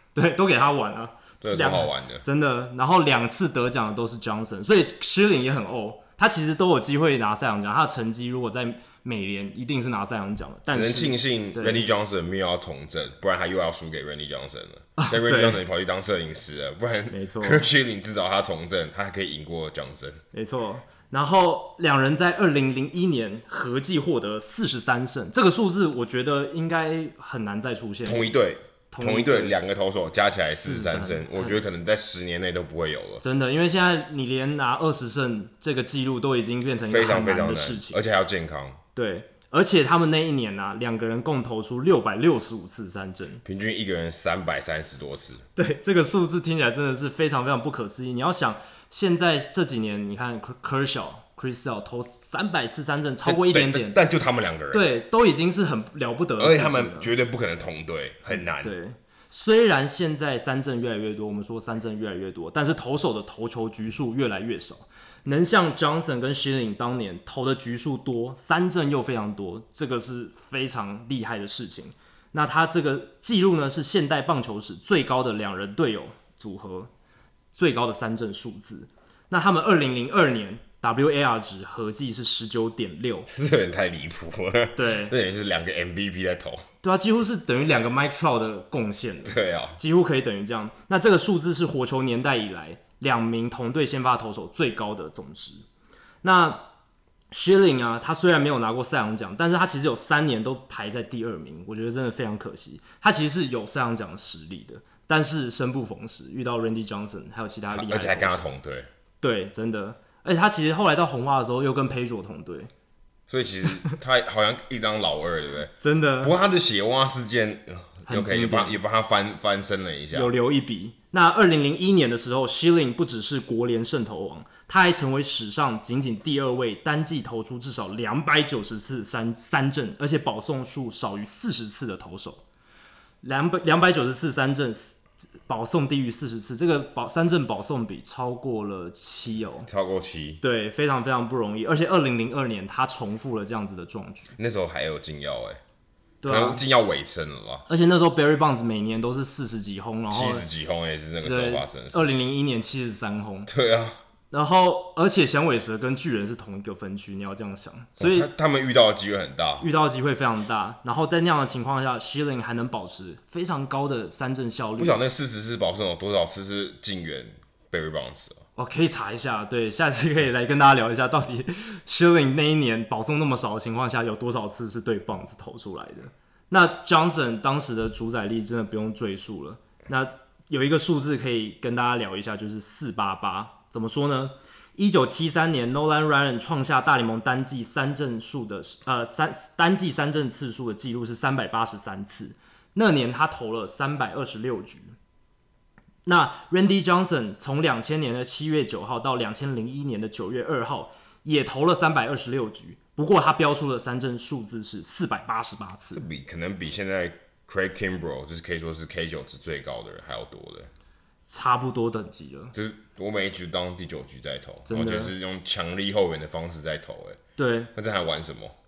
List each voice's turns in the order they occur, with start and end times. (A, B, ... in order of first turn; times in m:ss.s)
0:00.1-0:11.8 A
0:01.4-0:02.3 B
0:10.7-0:20.2 B
0:15.0-0:15.6 A
0:17.1-0:17.7 A
0:20.3-0:28.3 A
0:28.1-0:33.2 B
0:28.9-0:29.6 A
0:30.6-0:31.6 A
0:33.2-0:38.0 A
0:36.9-0:38.8 B
0:39.0-0:43.4 A
0:43.4-0:45.5 B
0:45.6-0:54.0 A
0:53.2-0:54.9 B
0:54.7-0:57.1 A
0:56.4-0:58.7 B
0:58.4-1:16.9 A
1:17.5-1:23.3 A
1:23.3-1:26.6 B
1:24.8-1:25.2 A
1:26.8-1:35.6 A
1:29.2-1:29.8 B
1:36.2-1:36.7 A
1:37.3-1:48.5 A
1:47.7-1:48.9 B
1:49.2-1:52.7 A
1:53.3-2:00.3 B
1:55.8-1:56.4 A
1:58.1-1:58.8 A
2:00.1-2:12.4 A
2:13.2-2:19.7 A
2:19.7-2:20.4 B
2:20.4-2:24.3 A
2:24.4-2:25.6 B
2:26.2-2:26.6 A
2:26.2-2:27.6 B
2:27.7-2:30.5 A
2:30.1-2:32.1 B
2:31.2-2:33.5 A
2:33.5-2:34.0 B
2:34.3-2:38.3 A
2:38.0-2:39.7 B
2:39.6-2:45.0 A
2:44.8-2:48.4 B
2:48.6-3:14.9 A
3:16.0-3:26.0 A
3:25.9-3:30.7 B
3:31.3-3:32.5 A
3:32.5-3:37.2 B
3:34.7-3:35.1 A
3:37.4-3:37.7 A
3:37.8-3:38.6 B